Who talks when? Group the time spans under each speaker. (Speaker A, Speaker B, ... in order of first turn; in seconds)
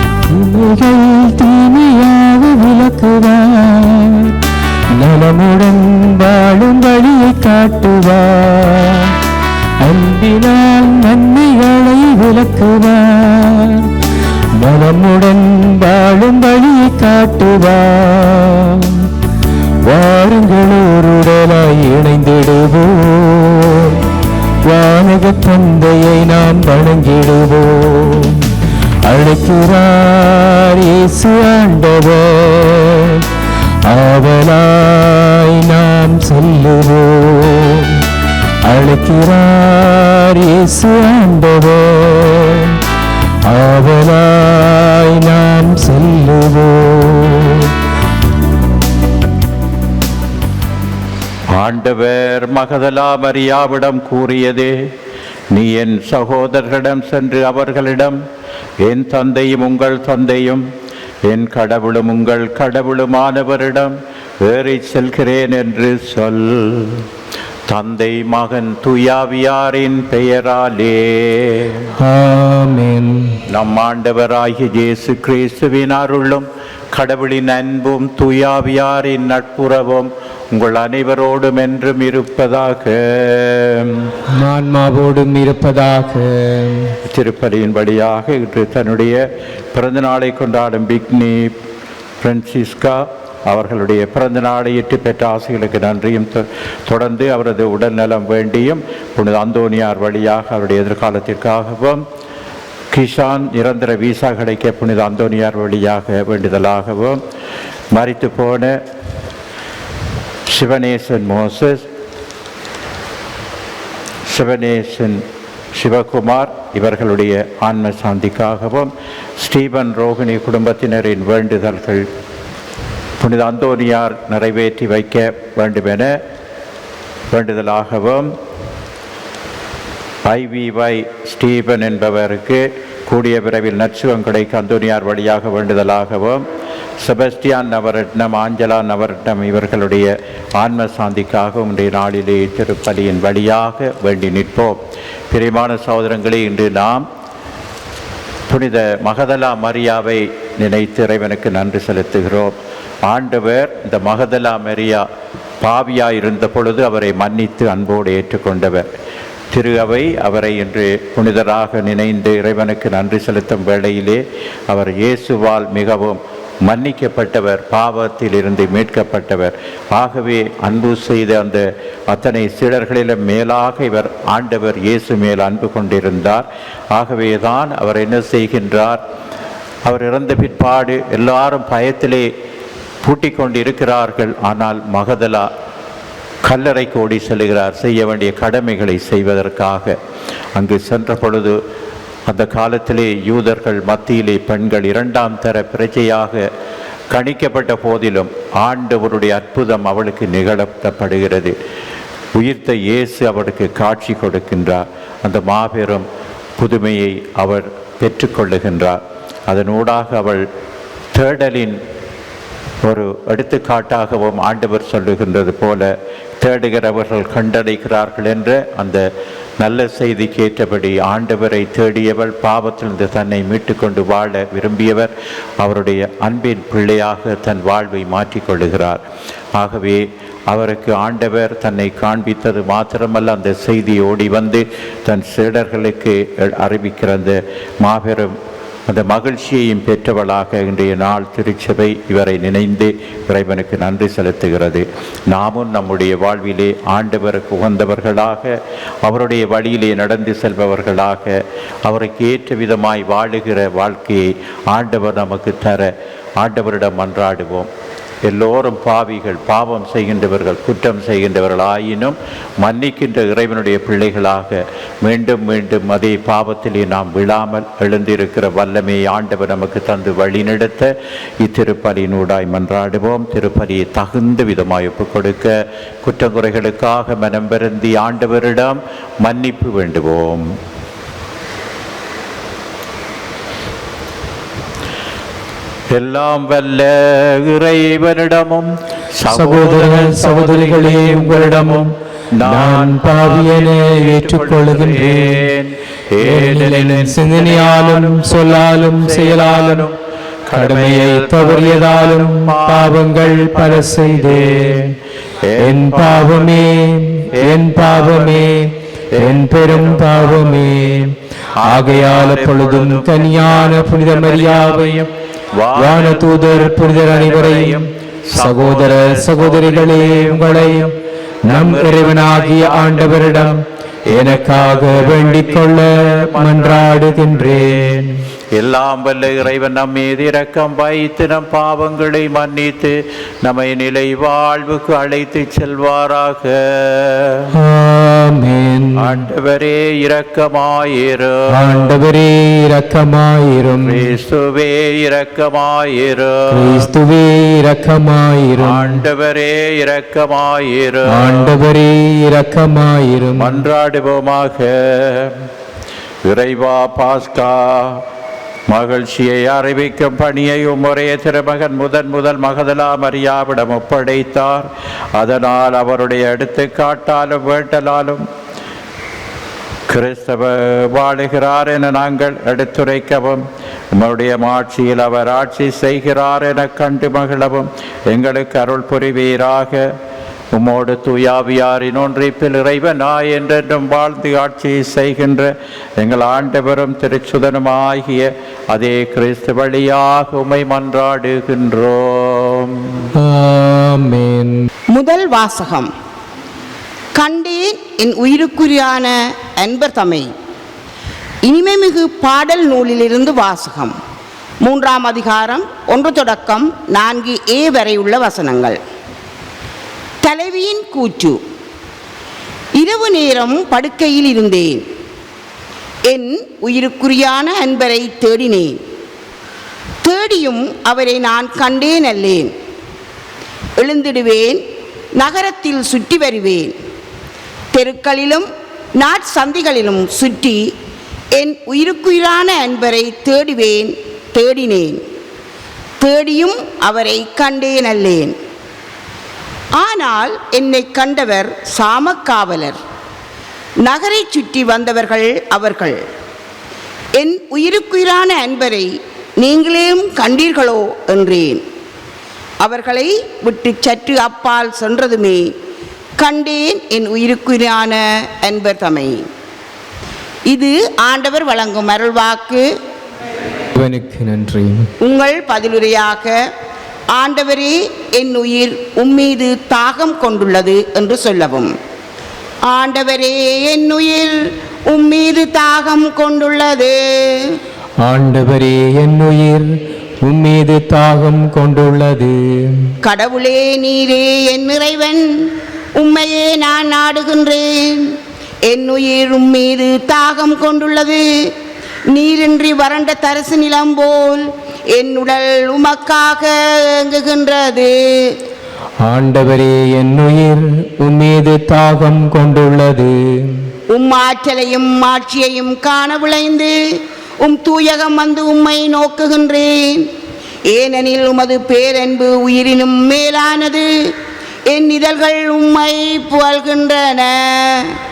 Speaker A: 0.3-4.4, 4.9-9.2, 9.8-13.9, 14.6-19.1, 19.8-24.0, 24.6-28.5, 29.0-33.2, 33.8-38.0, 38.6-42.8, 43.4-47.8, 72.0-73.4, 84.3-87.0, 289.3-291.9, 292.4-295.4, 296.2-299.9, 300.5-304.9, 305.6-311.1, 311.6-315.1, 315.7-320.9, 321.5-328.2, 337.5-339.2, 341.5-344.1, 346.5-349.0, 351.1-353.6, 393.1-394.7, 463.7-464.9, 478.0-479.7, 480.2-482.9, 499.0-503.7
Speaker B: 51.5-54.9, 55.5-58.2, 58.8-60.6, 61.3-67.0, 67.7-71.9, 73.5-84.1, 87.1-89.2, 89.7-91.5, 92.2-102.0, 102.9-107.2, 107.9-108.8, 110.5-111.9, 114.3-115.2, 115.8-122.1, 123.2-126.2, 127.3-128.3, 130.3-136.4, 137.0-144.8, 145.3-147.1, 148.5-152.5, 153.1-155.0, 155.6-158.8, 159.5-179.0, 179.8-182.3, 183.0-185.5, 186.4-190.0, 190.5-191.6, 192.3-196.4, 197.1-201.5, 202.3-206.1, 206.6-210.4, 211.1-211.8, 212.8-219.1, 219.6-229.0, 229.6-238.3, 238.9-257.7, 258.2-280.5, 285.9-311.1, 311.6-320.9, 321.5-337.5, 339.0-342.0, 343.8-346.9, 348.6-351.6, 353.4-355.4, 356.2-358.0, 358.7-368.2, 369.9-379.9, 380.5-393.1
Speaker C: 394.9-395.9, 397.1-400.3, 401.4-403.9, 404.6-408.8, 410.2-411.4, 412.8-414.8, 416.1-418.8, 420.0-422.5, 423.8-424.6, 425.1-426.7, 427.7-430.7, 431.3-435.0, 436.0-438.3, 439.8-442.8, 443.8-446.0, 447.2-451.6, 452.6-455.5, 456.2-459.3, 460.5-462.7, 465.0-466.5, 467.1-471.7, 472.6-477.6, 483.0-485.3, 485.9-491.5, 492.1-498.4, 503.9-506.8, 507.4-510.1, 510.7-513.9, 514.7-518.0